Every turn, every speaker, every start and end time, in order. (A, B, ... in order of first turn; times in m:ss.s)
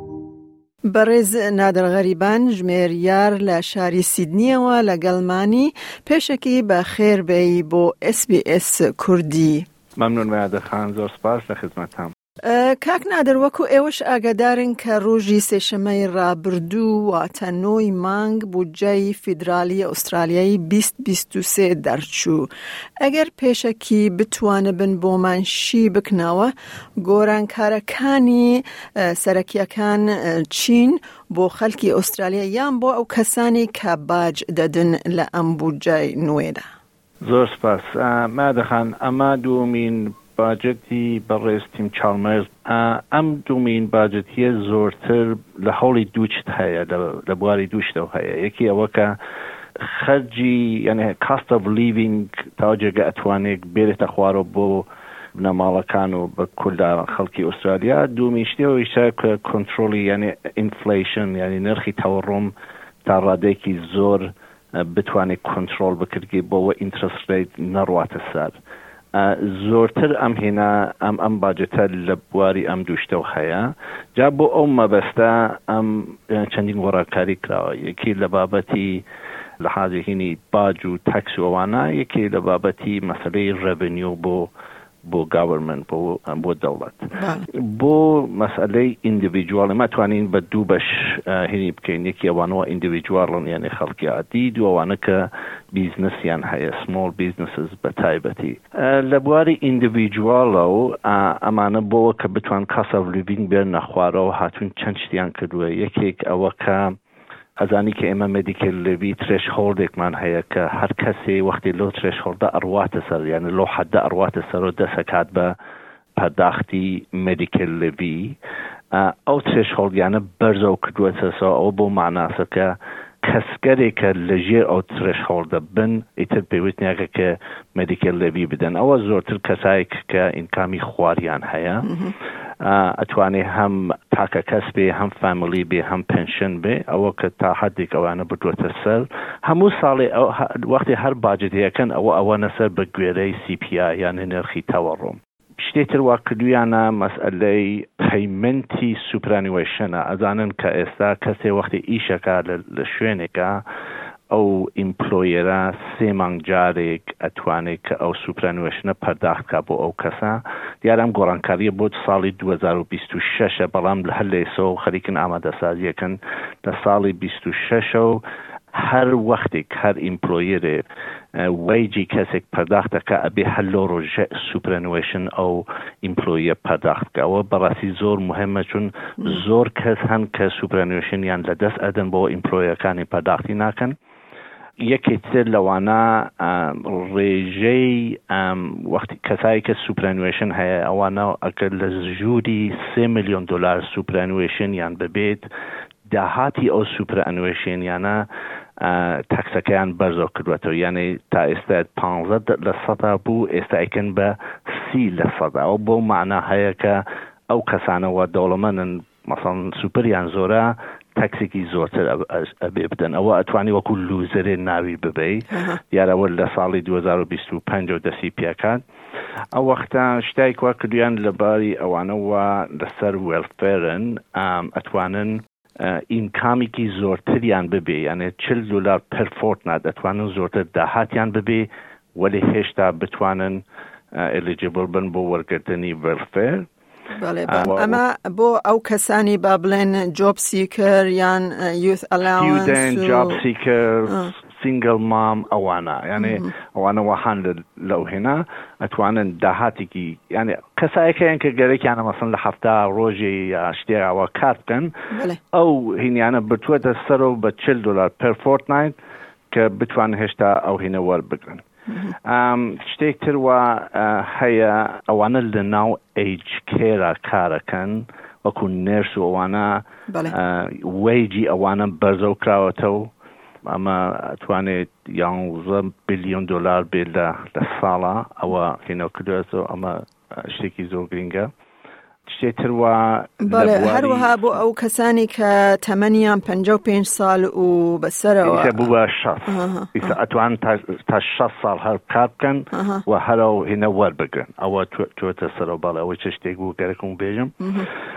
0:00.9-0:09.7 A
0:10.0-0:12.1 B
0:12.4-0:22.5 A
0:23.0-0:36.6 A
0:37.2-0:49.2 B
0:49.8-1:08.6 B
1:09.1-1:19.0 B
1:19.6-1:24.5 B
1:25.0-1:47.0 B
1:27.2-1:27.5 A
1:47.6-1:55.6 B
1:56.2-1:58.4 B
1:58.9-2:12.0 B
2:12.6-2:33.6 B
2:34.3-2:50.8 B
2:51.4-3:04.0 B
3:04.8-3:15.5 B
3:16.1-3:18.3 B
3:18.8-3:38.8 B
3:39.5-3:56.7 B
3:57.2-4:03.4 A
3:57.5-3:58.0 B
4:02.4-4:14.9 B
4:06.2-4:06.5 A
4:15.1-4:15.4 A
4:15.5-4:19.0 B
4:19.5-4:21.6 B
4:22.2-4:33.1 B
4:30.1-4:30.4 A
4:33.7-4:41.5 B
4:42.3-4:44.6 B
4:43.4-4:48.8 A
4:48.4-4:57.6 B
4:49.5-4:50.0 A
4:52.7-4:53.0 A
4:57.6-4:57.9 A